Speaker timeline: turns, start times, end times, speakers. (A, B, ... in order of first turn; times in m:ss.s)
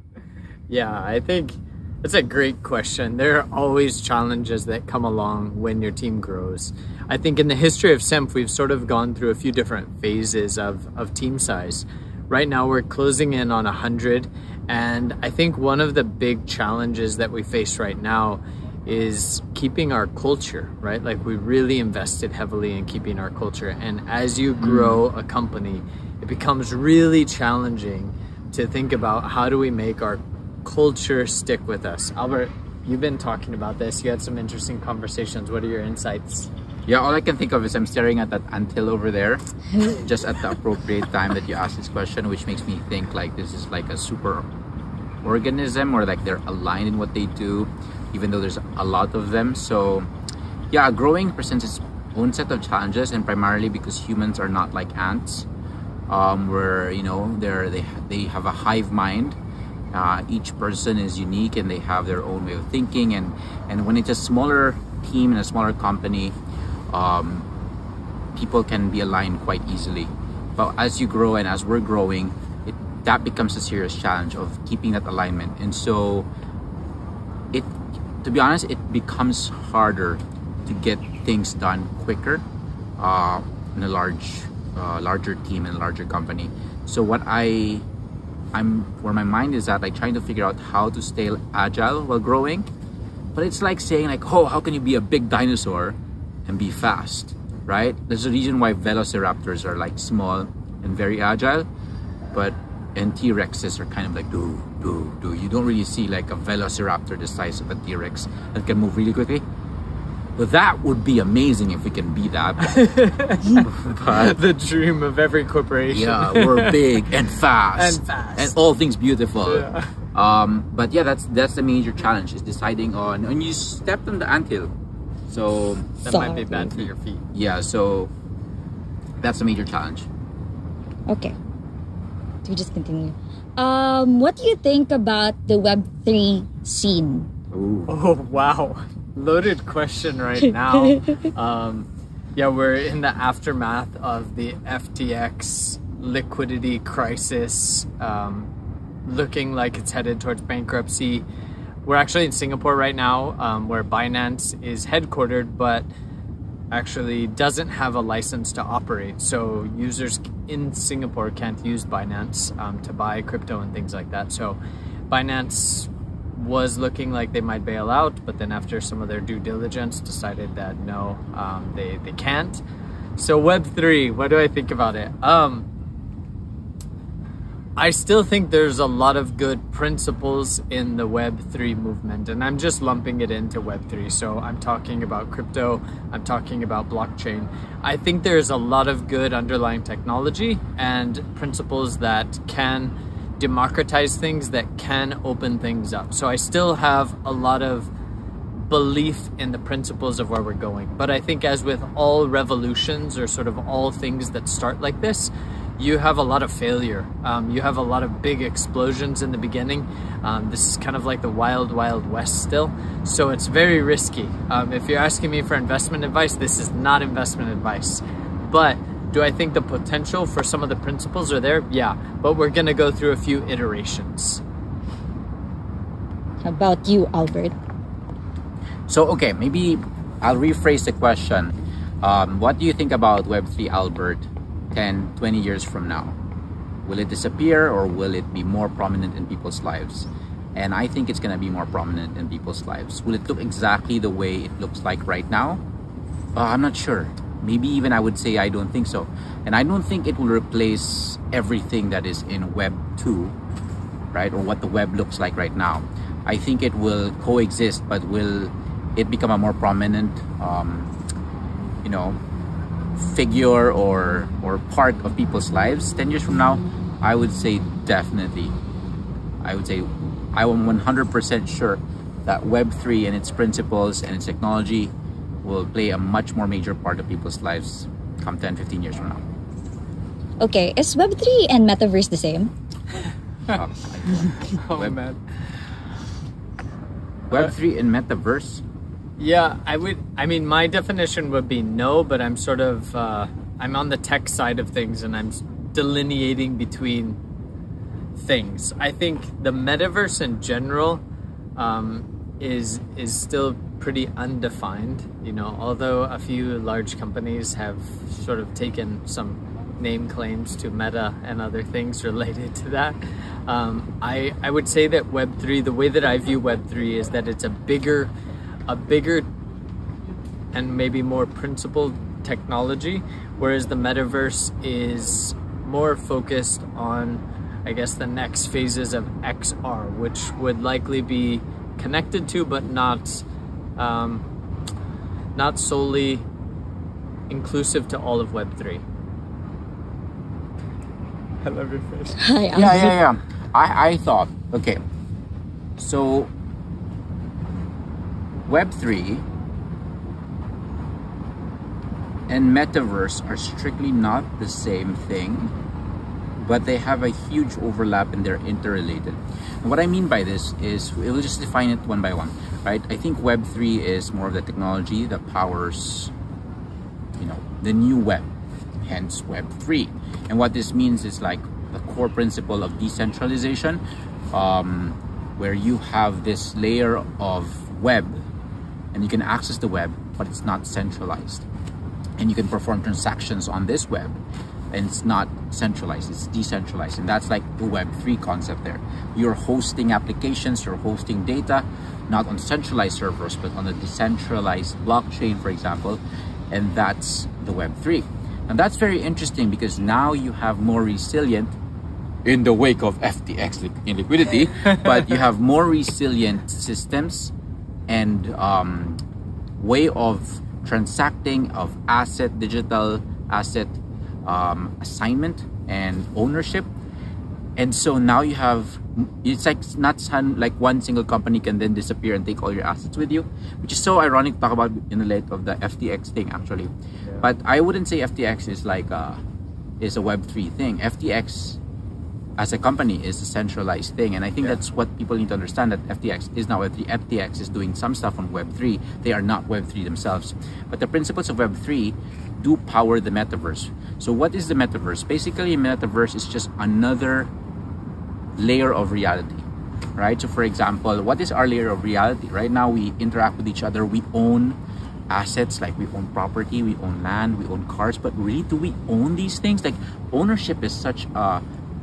0:00.7-0:36.5 A
0:24.6-0:25.0 B
0:36.9-0:44.4 B
0:45.2-0:50.1 B
0:50.7-0:55.4 B
0:56.1-0:59.4 B
0:59.9-1:06.3 B
1:06.9-1:07.5 B
1:08.3-1:16.3 B
1:18.2-1:22.4 B
1:23.0-1:27.8 B
1:28.5-1:32.7 B
1:33.3-1:36.0 B
1:36.5-1:41.7 B
1:42.3-1:49.4 B
1:50.4-1:52.8 B
1:52.6-1:57.0 A
1:53.5-1:54.4 B
1:55.9-2:04.7 B
1:57.7-1:58.6 A
1:59.4-2:00.0 A
2:05.3-2:06.0 B
2:06.0-2:07.2 A
2:06.1-2:06.9 C
2:07.3-2:08.1 B
2:09.2-2:10.1 B
2:11.1-2:11.4 C
2:12.4-2:17.3 C
2:17.5-2:17.9 B
2:17.9-2:28.5 A
2:29.0-2:31.2 A
2:31.8-2:35.9 A
2:36.7-2:44.6 A
2:45.1-2:52.6 A
2:53.2-2:55.7 A
2:57.8-3:17.9 A
3:18.5-3:44.4 A
3:46.4-3:47.5 C
3:48.9-3:56.2 B
3:56.8-4:05.6 B
4:06.4-4:13.3 B
4:14.1-4:20.9 B
4:21.8-4:22.2 B
4:23.0-4:28.5 B
4:29.4-4:34.9 B
4:35.4-4:39.2 B
4:40.4-4:42.5 C
4:43.5-4:45.0 B
4:44.5-4:45.2 A
4:47.3-4:48.6 B
4:49.2-4:57.2 A
4:58.2-5:01.0 A
5:01.6-5:18.1 A
5:18.7-5:19.3 A
5:20.5-5:33.2 A
5:33.8-5:34.2 A
5:35.3-5:36.2 A
5:37.3-5:38.8 A
5:41.4-5:42.2 A
5:42.2-5:43.0 C
5:42.5-5:44.8 B
5:45.8-5:46.3 B
5:48.4-5:49.2 B
5:52.3-5:55.5 B
5:56.4-6:06.1 B
6:07.2-6:08.2 B
6:08.8-6:18.2 B
6:18.9-6:21.4 B
6:22.2-6:24.2 B
6:24.7-6:41.5 B
6:42.2-6:47.3 B
6:44.7-6:45.2 A
6:47.9-6:49.0 B
6:49.6-6:56.7 B
6:57.6-7:09.2 B
7:09.8-7:11.6 B
7:12.4-7:27.3 B
7:28.4-7:29.4 B
7:30.0-7:34.6 B
7:35.1-7:41.4 B